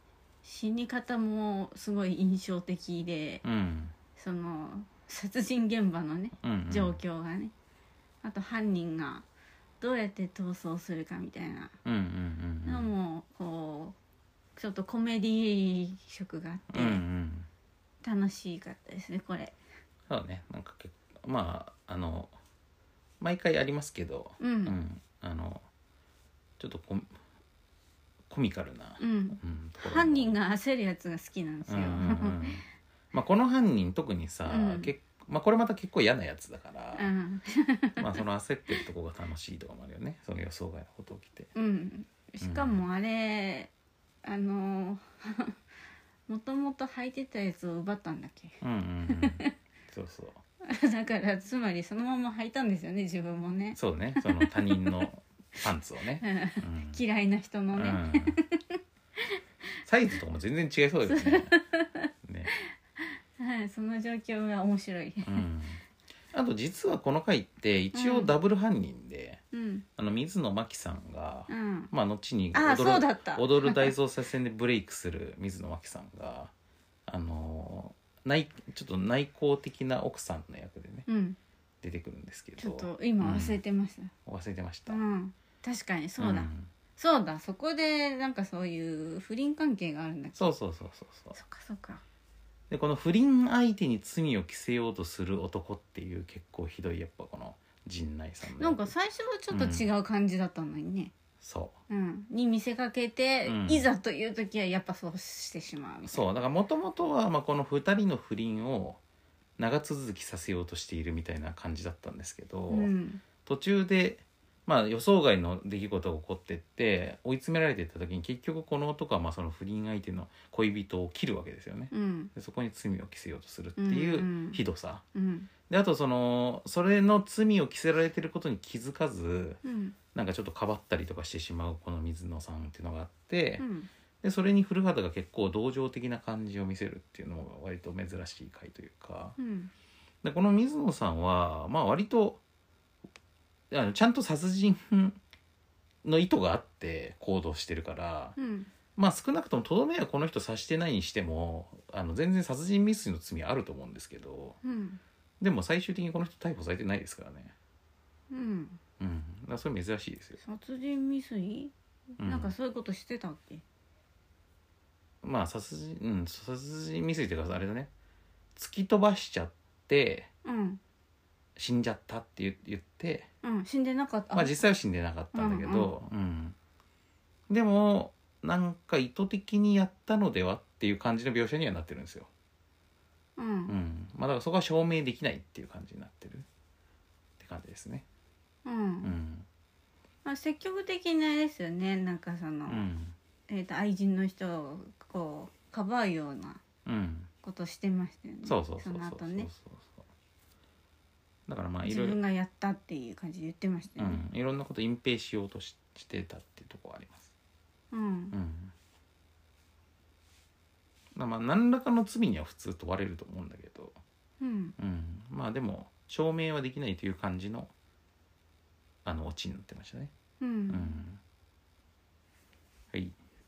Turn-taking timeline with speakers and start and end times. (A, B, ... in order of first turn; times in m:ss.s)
0:00.4-0:03.4 A
0:03.4-0:04.0 B
0:04.2-0:07.5 A
0:06.4-0:07.0 B
0:08.2-0:09.3 A
0:09.8-0:11.7 A
0:11.8-0:12.9 B
0:12.6-0:14.0 A
0:14.6-0:17.0 A
0:16.7-0:17.5 B
0:18.0-0:19.6 A
0:20.1-0:22.3 B
0:23.2-0:25.6 B
0:24.4-0:24.8 A
0:26.6-0:27.2 B
0:28.3-0:30.4 B
0:29.0-0:32.6 A
0:31.7-0:37.1 B
0:34.5-0:34.9 A
0:37.0-0:38.2 A
0:38.0-0:41.5 B
0:41.6-0:43.7 A
0:42.4-0:42.8 B
0:44.2-0:45.6 A
0:46.3-0:49.5 A
0:48.6-0:50.4 B
0:50.6-0:55.1 A
0:53.8-0:57.0 B
0:56.2-0:59.4 A
0:57.7-0:58.4 B
0:59.8-1:01.6 B
1:01.1-1:05.4 A
1:02.2-1:02.5 B
1:05.2-1:05.8 B
1:06.3-1:09.4 B
1:07.9-1:08.3 A
1:09.5-1:09.8 A
1:10.0-1:16.5 B
1:11.5-1:11.9 A
1:12.5-1:13.9 A
1:17.1-1:21.1 B
1:21.1-1:21.4 A
1:21.8-1:23.6 B
1:22.6-1:24.1 A
1:24.2-1:25.0 B
1:24.9-1:30.5 A
1:26.2-1:26.7 B
1:30.4-1:31.4 B
1:31.4-1:32.0 A
1:32.7-1:38.9 B
1:38.5-1:41.1 A
1:39.5-1:39.9 B
1:41.4-1:41.8 B
1:41.9-1:46.3 A
1:43.4-1:43.9 B
1:46.1-1:49.0 B
1:49.6-1:52.9 B
1:52.7-1:53.2 A
1:53.4-2:05.0 B
2:01.9-2:02.3 A
2:03.8-2:04.6 A
2:05.2-2:05.5 A
2:05.7-2:09.6 B
2:09.6-2:10.0 A
2:10.1-2:13.6 B
2:13.6-2:13.9 A
2:14.2-2:19.4 B
2:19.4-2:19.7 A
2:20.2-2:22.4 B
2:23.7-2:25.2 B
2:26.0-2:28.4 B
2:28.4-2:28.7 A
2:29.0-2:34.6 B
2:34.6-2:35.0 A
2:35.4-2:37.5 B
2:38.3-2:38.8 A
2:39.0-2:40.4 B
2:40.4-2:43.6 A
2:42.2-2:42.5 B
2:45.2-2:47.9 B
2:48.6-2:50.3 B
2:50.4-2:50.8 A
2:51.6-2:53.3 B
2:53.4-2:54.6 A
2:54.3-2:56.6 B
2:55.3-2:55.9 A
2:57.5-3:02.3 B
3:03.4-3:03.7 A
3:03.7-3:06.5 B
3:07.4-3:08.0 B
3:08.6-3:09.1 A
3:09.0-3:09.5 B
3:10.2-3:12.9 A
3:12.7-3:13.2 B
3:13.5-3:16.6 A
3:16.9-3:17.3 B
3:17.4-3:19.5 A
3:18.4-3:20.0 B
3:21.5-3:22.2 B
3:21.8-3:24.2 A
3:24.0-3:27.3 B
3:27.9-3:28.4 A
3:28.3-3:28.7 B
3:31.2-3:34.0 B
3:34.4-3:34.8 A
3:34.8-3:37.7 B
3:39.0-3:40.1 B
3:40.4-3:41.0 A
3:40.7-3:41.2 B